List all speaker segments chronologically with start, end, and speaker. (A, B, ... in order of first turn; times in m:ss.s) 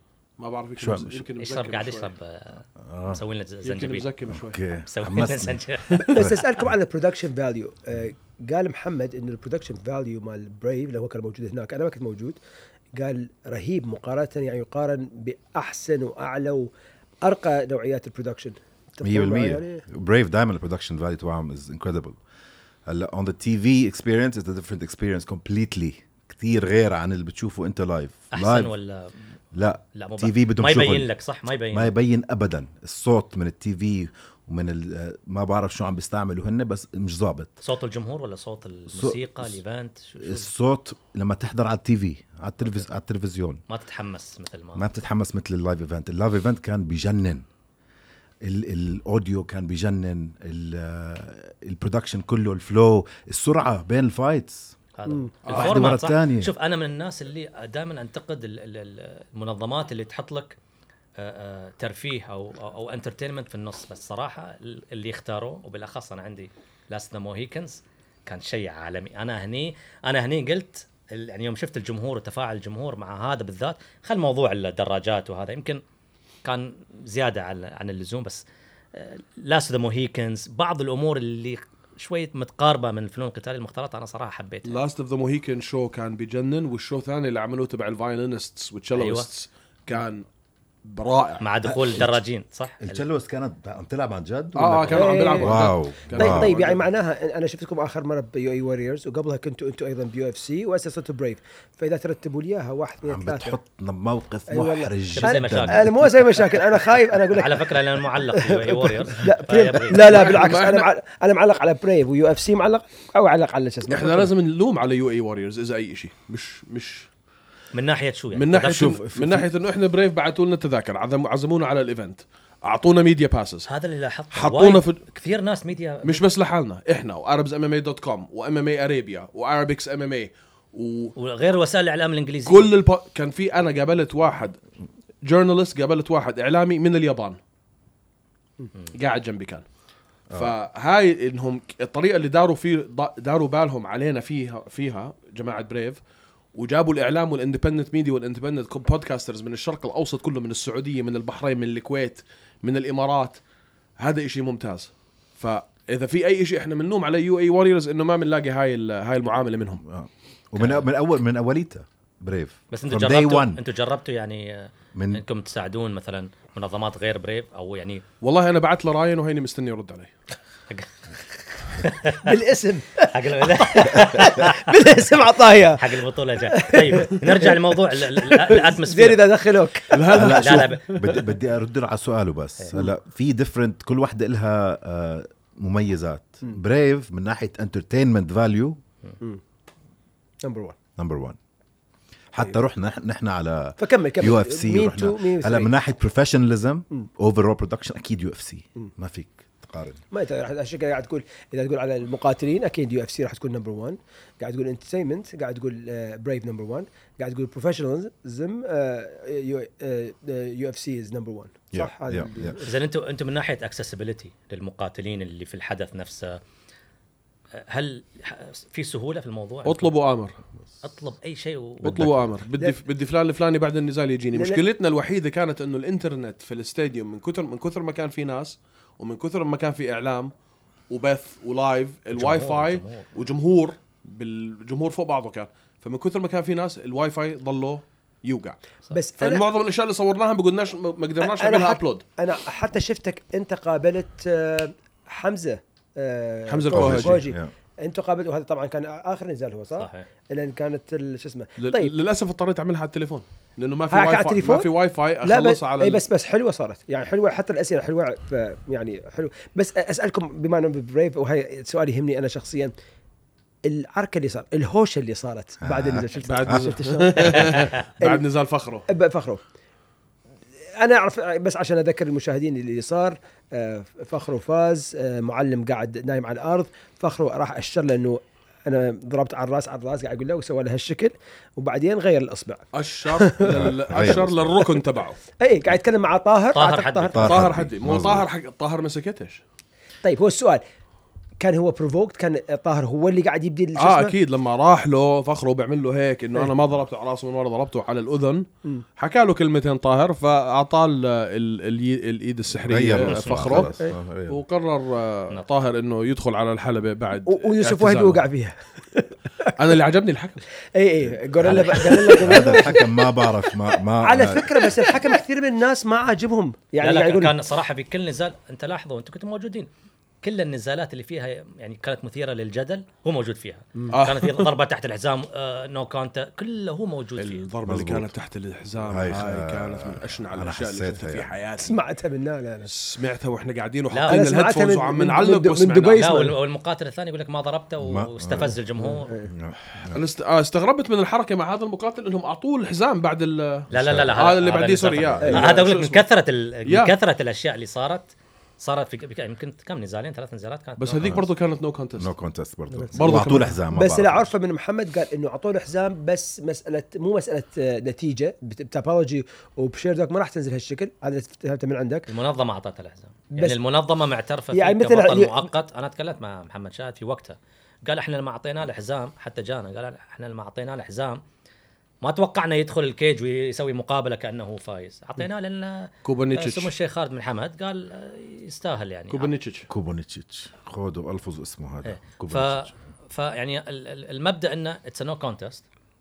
0:00.4-0:02.1 A
0:00.8-0:01.2 B
0:01.4-0:04.1 C
0:02.8-0:03.2 B
0:03.6-0:04.6 A
0:04.3-0:06.7 B
0:04.9-0:06.4 C
0:06.0-0:12.4 D
0:12.9-0:16.7 D
0:17.2-0:19.8 D
0:19.0-0:22.2 B
0:22.8-0:28.7 B
0:28.3-0:29.3 C
0:29.5-0:31.1 B
0:29.9-0:31.9 C
0:31.7-0:37.6 B
0:37.6-0:40.5 C
0:38.9-0:39.6 B
0:40.2-0:43.6 B
0:43.7-0:44.9 C
0:44.7-0:47.4 B
0:48.4-0:54.8 B
0:55.0-1:00.6 C
0:55.4-0:55.9 A
0:55.4-0:56.5 B
1:01.2-1:15.8 C
1:16.4-1:24.8 C
1:24.6-1:30.2 A
1:29.0-1:29.3 C
1:30.8-1:31.4 A
1:31.4-1:33.0 C
1:31.6-1:32.2 B
1:32.8-1:36.6 B
1:34.5-1:36.8 A
1:34.9-1:43.6 D
1:43.0-1:46.2 B
1:44.5-1:47.8 D
1:45.1-1:45.9 C
1:47.3-1:50.4 C
1:48.4-1:54.3 D
1:49.9-1:50.9 A
1:53.9-1:57.1 A
1:57.7-1:58.8 C
1:58.3-2:03.7 A
1:58.5-1:59.5 B
2:03.7-2:06.2 C
2:04.3-2:05.0 A
2:06.0-2:11.1 A
2:11.2-2:12.7 C
2:12.4-2:14.6 A
2:15.2-2:17.4 A
2:18.9-2:19.6 A
2:20.3-2:26.0 A
2:26.5-2:33.4 A
2:34.0-2:39.8 A
2:39.8-2:43.6 B
2:40.5-2:40.8 C
2:42.7-2:48.0 C
2:44.9-2:45.2 B
2:48.2-2:50.1 A
2:51.7-2:52.3 C
2:52.2-3:00.5 D
2:53.1-2:54.7 C
2:55.8-3:01.1 C
2:59.9-3:01.1 A
3:00.1-3:08.8 B
3:10.4-3:10.8 D
3:11.0-3:11.4 B
3:12.3-3:20.0 B
3:13.8-3:15.7 D
3:20.1-3:32.8 D
3:31.7-3:32.6 B
3:32.6-3:36.4 C
3:37.6-3:39.9 C
3:39.6-3:40.4 A
3:40.8-3:42.1 C
3:41.8-3:50.3 A
3:41.8-3:42.1 B
3:44.3-3:44.6 D
3:50.9-3:58.6 A
3:52.1-3:53.2 C
3:58.9-3:59.4 D
3:59.2-4:02.0 A
4:01.2-4:11.9 D
4:06.5-4:07.2 A
4:06.7-4:07.5 B
4:09.8-4:10.0 C
4:11.6-4:16.0 A
4:13.9-4:14.7 D
4:15.2-4:22.7 D
4:23.6-4:28.2 D
4:25.6-4:26.7 B
4:26.1-4:28.8 A
4:28.9-4:29.4 D
4:30.8-4:43.7 D
4:42.7-4:45.2 A
4:43.4-4:44.5 B
4:45.4-4:47.4 D
4:46.5-4:47.2 C
4:47.1-4:48.3 B
4:47.2-4:49.4 A
4:50.0-4:50.6 D
4:51.4-4:54.2 D
4:53.8-4:58.4 A
4:59.0-5:03.8 A
5:02.6-5:04.4 B
5:03.0-5:03.6 C
5:04.3-5:08.2 A
5:07.2-5:09.5 D
5:09.4-5:10.4 A
5:10.7-5:17.3 D
5:11.0-5:15.0 B
5:11.4-5:12.0 C
5:16.8-5:19.7 C
5:20.2-5:27.4 C
5:23.9-5:24.5 A
5:27.2-5:31.8 A
5:27.6-5:28.1 B
5:28.9-5:31.3 B
5:31.6-5:32.7 D
5:32.6-5:36.2 A
5:33.9-5:34.2 C
5:34.1-5:36.4 D
5:35.9-5:39.1 C
5:37.8-5:38.6 B
5:38.8-5:39.3 D
5:39.3-5:40.0 B
5:39.9-5:46.0 A
5:43.7-5:44.3 B
5:43.7-5:51.3 C
5:45.0-5:45.4 B
5:45.2-5:45.5 D
5:46.7-5:46.9 A
5:50.8-5:52.1 A
5:51.0-5:51.3 B
5:52.0-5:54.3 B
5:52.7-6:02.1 D
5:52.9-5:53.6 A
6:02.1-6:11.2 C
6:03.3-6:03.6 D
6:04.5-6:05.5 D
6:12.0-6:19.3 C
6:16.0-6:16.7 A
6:19.1-6:19.7 A
6:19.7-6:22.7 B
6:21.8-6:25.6 C